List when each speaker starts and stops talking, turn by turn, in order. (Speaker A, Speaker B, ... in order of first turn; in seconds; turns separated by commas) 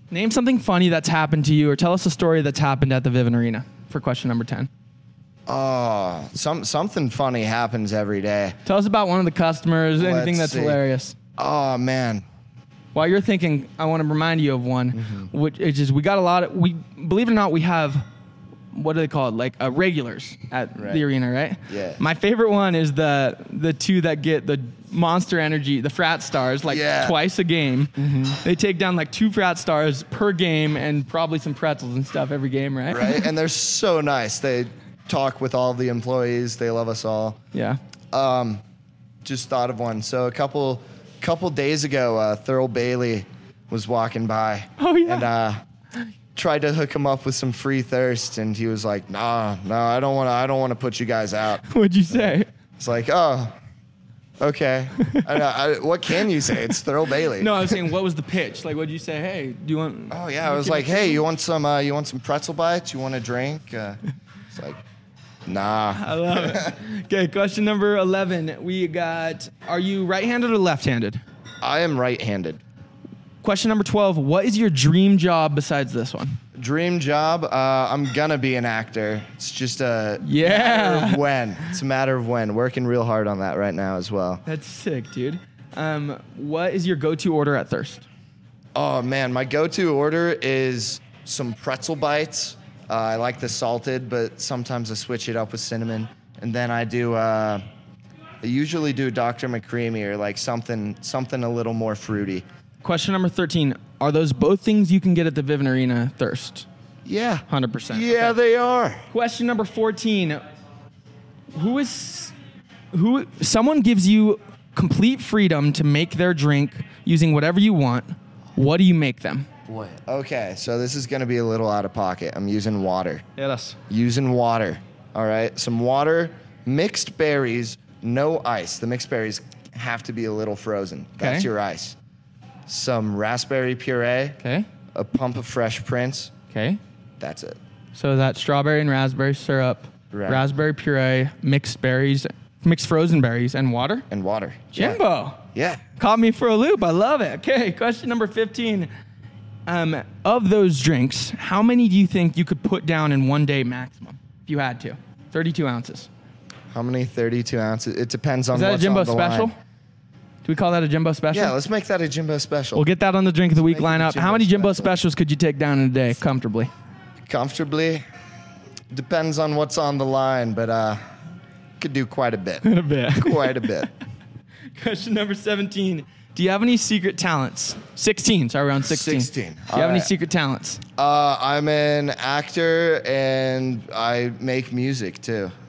Speaker A: 0.1-4.7, Speaker B: 5.5-8.6, Speaker A: 8.6-11.1, Speaker B: 9.9-10.8, Speaker B: 11.4-12.2, Speaker A: 12.9-18.0, Speaker B: 14.9-15.3, Speaker A: 18.7-33.3, Speaker B: 20.8-21.0, Speaker B: 21.7-22.0, Speaker B: 26.6-27.2, Speaker B: 32.9-37.4, Speaker A: 37.5-37.8, Speaker B: 38.1-38.6, Speaker B: 39.2-45.6, Speaker A: 44.8-45.3, Speaker B: 46.4-53.5, Speaker A: 51.6-52.5, Speaker B: 54.4-57.8, Speaker A: 55.0-55.3, Speaker A: 57.4-61.2, Speaker B: 60.1-64.0, Speaker B: 64.5-64.8, Speaker B: 65.5-66.8, Speaker A: 65.9-71.2, Speaker B: 71.6-72.6, Speaker A: 73.4-76.4, Speaker B: 76.5-84.4, Speaker A: 80.2-81.2, Speaker A: 84.5-88.0, Speaker B: 88.7-97.6, Speaker B: 98.4-102.4, Speaker A: 102.8-106.7, Speaker B: 107.0-109.1, Speaker A: 107.5-108.3, Speaker A: 109.1-110.4, Speaker A: 111.5-112.3, Speaker A: 112.9-119.5, Speaker B: 119.7-123.2, Speaker A: 123.4-123.8, Speaker B: 123.9-131.9, Speaker A: 131.2-131.5, Speaker B: 132.7-134.4, Speaker A: 134.4-134.7, Speaker B: 134.9-136.3, Speaker A: 136.5-136.8, Speaker B: 137.2-137.6, Speaker A: 137.9-144.1, Speaker B: 140.1-140.4, Speaker B: 144.1-145.0, Speaker A: 144.7-145.4, Speaker B: 145.5-145.8, Speaker A: 146.0-148.9, Speaker A: 149.7-156.1, Speaker B: 156.7-159.5, Speaker A: 158.5-159.5, Speaker A: 160.4-161.5, Speaker B: 161.3-162.8, Speaker A: 162.7-166.7, Speaker B: 163.7-164.9, Speaker B: 167.2-168.0, Speaker B: 168.9-171.0, Speaker B: 171.8-173.9, Speaker A: 172.6-173.7, Speaker A: 174.8-180.8, Speaker B: 178.8-180.1, Speaker B: 181.0-185.5